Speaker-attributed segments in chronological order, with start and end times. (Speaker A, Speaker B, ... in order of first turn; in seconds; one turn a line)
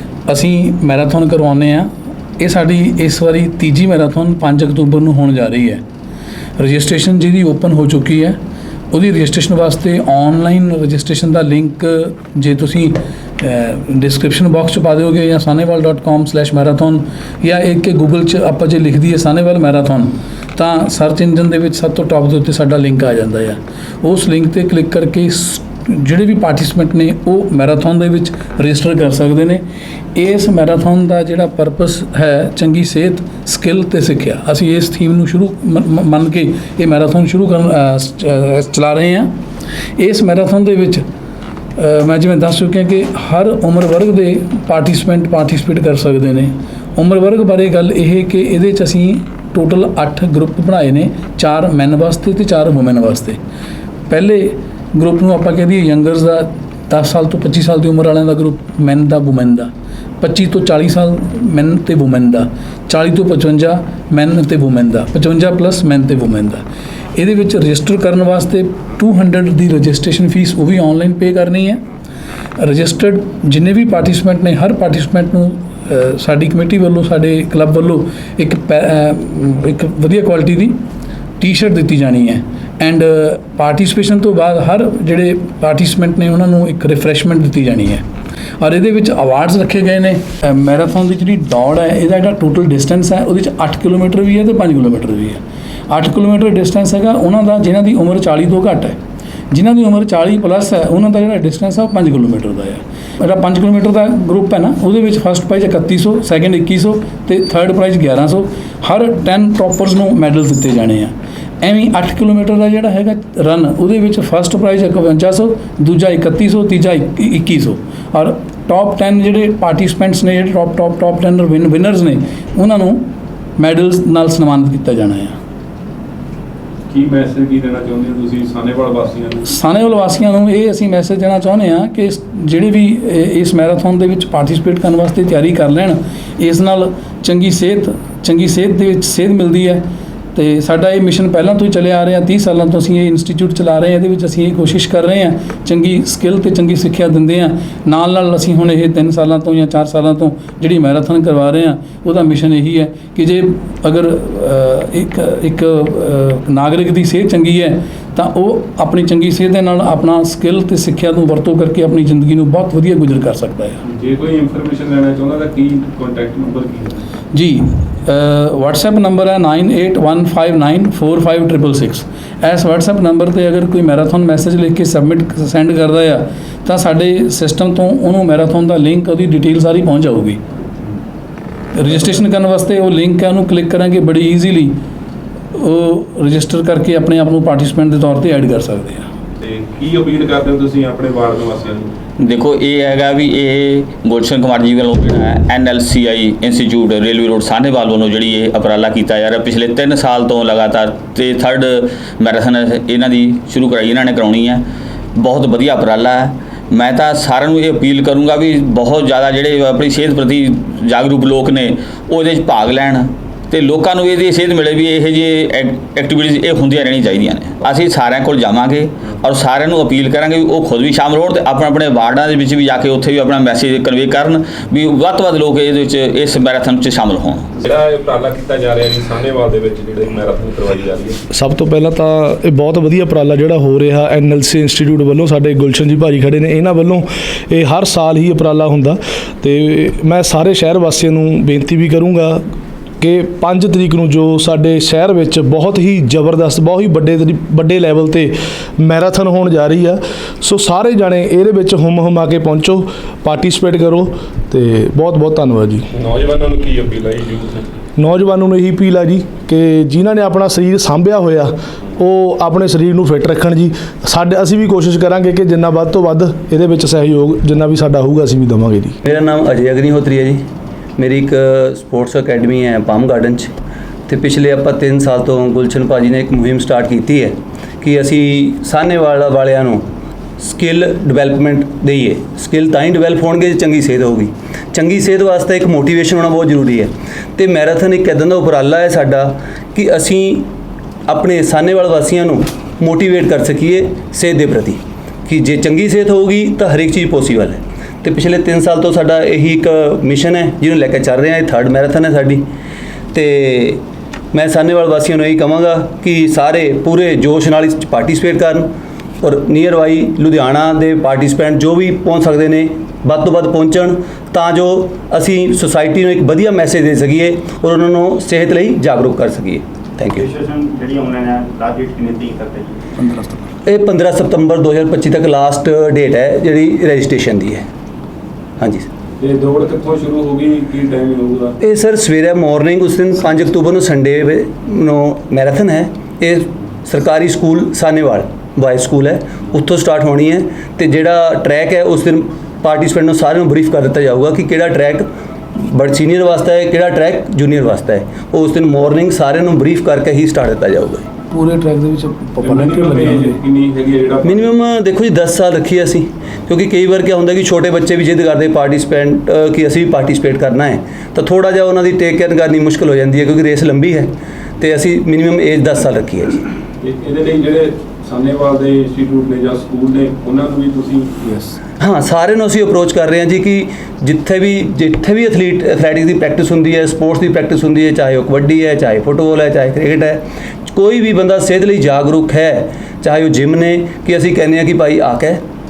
Speaker A: 0.3-5.8
Speaker A: 6.6-8.4
Speaker A: 8.9-29.6
Speaker A: 30.1-39.3
Speaker A: 40.0-41.0
Speaker A: 41.8-53.4
Speaker A: 54.1-59.7
Speaker A: 60.2-66.6
Speaker A: 67.2-71.8
Speaker A: 72.6-80.8
Speaker A: 81.4-88.0
Speaker A: 88.6-99.0
Speaker A: 99.5-125.4
Speaker B: 126.9-129.4
Speaker A: 129.4-163.8
Speaker B: 163.8-167.0
Speaker A: 167.3-180.4
Speaker A: 181.7-184.7
Speaker A: 185.5-189.1
Speaker B: 189.4-191.9
Speaker C: 192.2-204.6
Speaker C: 205.2-227.4
Speaker B: 227.6-231.2
Speaker D: 231.3-242.4
Speaker D: 243.0-255.9
Speaker B: 255.9-257.7
Speaker D: 257.9-269.0
Speaker E: 269.0-270.4
Speaker E: 271.0-273.5
Speaker E: 274.1-279.8
Speaker E: 280.4-290.5
Speaker E: 291.1-302.4
Speaker E: 303.1-303.8
Speaker E: 304.3-308.7
Speaker E: 309.2-320.2
Speaker F: 320.2-322.6
Speaker A: 323.0-323.4
Speaker E: 323.6-327.6
Speaker E: 328.6-328.9
Speaker B: 329.2-331.5
Speaker E: 331.6-345.1
Speaker E: 345.6-351.0
Speaker A: 351.3-353.4
Speaker B: 352.4-354.7
Speaker E: 354.2-366.4
Speaker B: 366.8-371.6
Speaker E: 371.8-385.4